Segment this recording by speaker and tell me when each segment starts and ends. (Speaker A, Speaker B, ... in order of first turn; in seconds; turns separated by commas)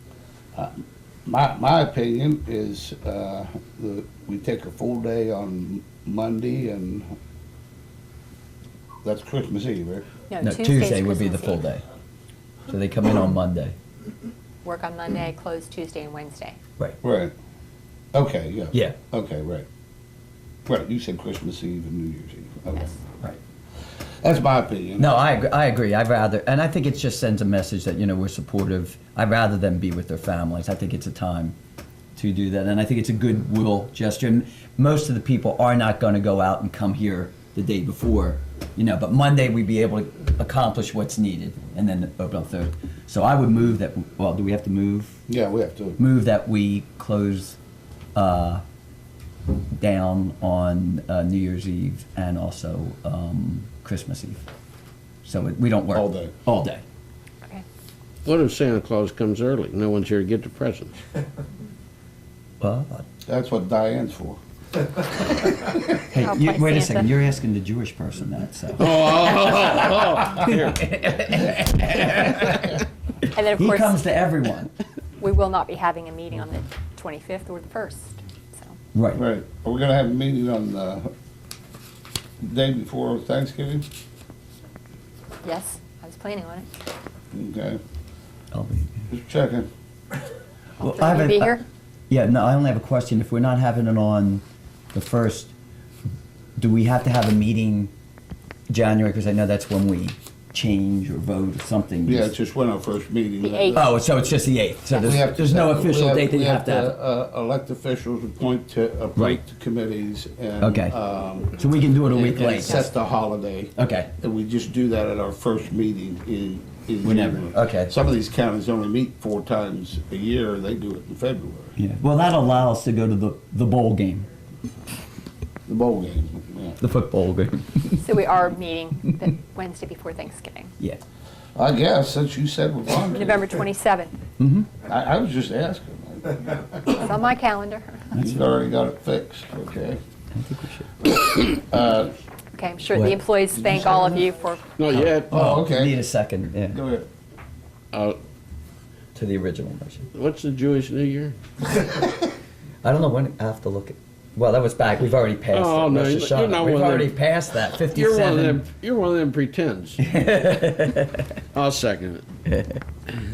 Speaker A: 0.5-7.1, Speaker A: 9.0-10.1, Speaker B: 10.3-11.6, Speaker C: 10.4-11.8, Speaker C: 12.7-13.7, Speaker B: 14.6-16.6, Speaker A: 17.0-17.3, Speaker A: 18.1-19.6, Speaker A: 20.7-23.0, Speaker A: 24.2-25.1, Speaker C: 25.0-31.6, Speaker C: 32.1-45.2, Speaker A: 45.3-46.0, Speaker C: 46.0-47.6, Speaker C: 48.1-48.6, Speaker C: 49.8-54.4, Speaker C: 55.2-56.8, Speaker A: 55.9-56.3, Speaker D: 58.2-61.0, Speaker C: 62.6-63.0, Speaker A: 63.2-64.4, Speaker C: 66.1-69.4, Speaker B: 66.1-67.1, Speaker D: 68.8-70.9, Speaker C: 70.3-72.8, Speaker B: 73.3-74.0, Speaker C: 73.5-74.7, Speaker B: 75.2-78.8, Speaker C: 78.9-79.2, Speaker A: 79.1-81.1, Speaker A: 82.4-83.8, Speaker B: 85.4-86.7, Speaker A: 87.3-87.8, Speaker C: 88.5-89.1, Speaker A: 89.1-89.7, Speaker B: 90.8-91.6, Speaker C: 90.8-95.5, Speaker C: 96.6-97.9, Speaker C: 98.7-102.3, Speaker A: 102.0-103.9, Speaker B: 103.4-103.8, Speaker C: 103.7-106.9, Speaker B: 104.9-105.2, Speaker A: 105.0-121.8, Speaker C: 109.2-109.4, Speaker C: 110.6-110.9, Speaker C: 111.5-112.9, Speaker C: 113.8-114.1, Speaker C: 117.0-117.9, Speaker C: 121.8-124.3, Speaker A: 125.7-126.8, Speaker C: 126.8-128.1, Speaker B: 128.0-130.7, Speaker A: 131.6-133.6, Speaker B: 133.1-134.1, Speaker C: 134.4-134.7, Speaker A: 134.8-137.1, Speaker B: 136.8-138.1, Speaker C: 138.1-138.4, Speaker A: 138.1-140.0, Speaker C: 140.3-141.0, Speaker A: 141.1-142.1, Speaker B: 142.6-144.7, Speaker C: 142.9-143.2, Speaker A: 143.6-144.2, Speaker D: 144.8-145.3, Speaker C: 144.9-146.8, Speaker A: 145.3-146.0, Speaker A: 146.7-147.1, Speaker D: 147.9-148.2, Speaker C: 149.1-150.1, Speaker D: 150.1-151.4, Speaker C: 152.8-158.6, Speaker D: 155.5-157.1, Speaker D: 157.9-160.0, Speaker C: 160.0-161.3, Speaker D: 161.5-162.2, Speaker C: 162.5-162.8